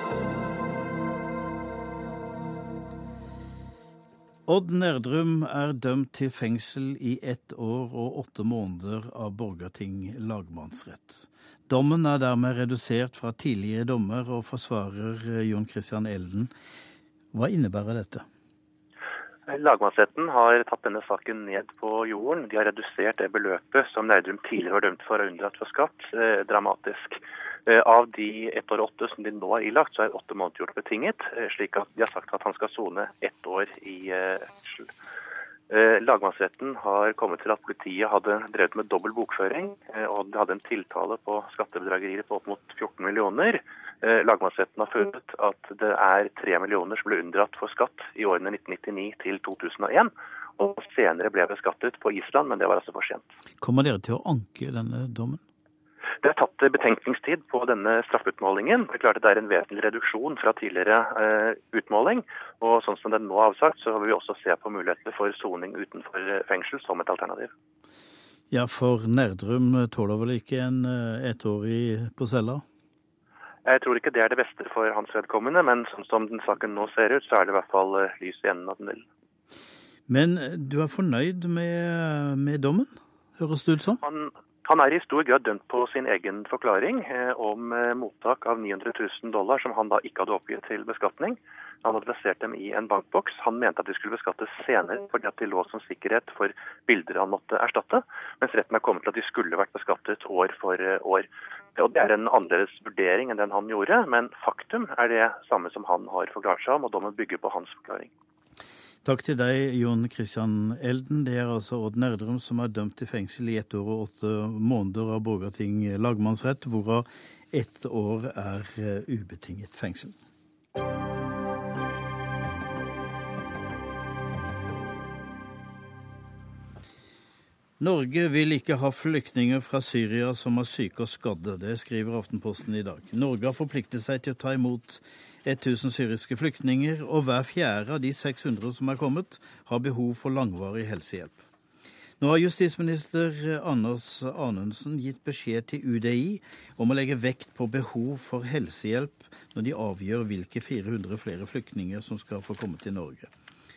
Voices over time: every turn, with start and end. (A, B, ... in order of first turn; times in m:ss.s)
0:04.5-0:16.5 A
0:17.3-0:18.3 A
0:19.5-0:34.9 B
0:35.7-0:53.2 B
0:53.6-0:55.4 A
0:56.2-1:07.5 B
1:08.5-1:12.6 A
1:13.7-1:19.0 B
1:20.1-1:24.0 A
1:24.0-1:48.1 B
1:49.0-2:00.2 A
2:07.8-2:21.4 A
2:22.2-2:33.3 A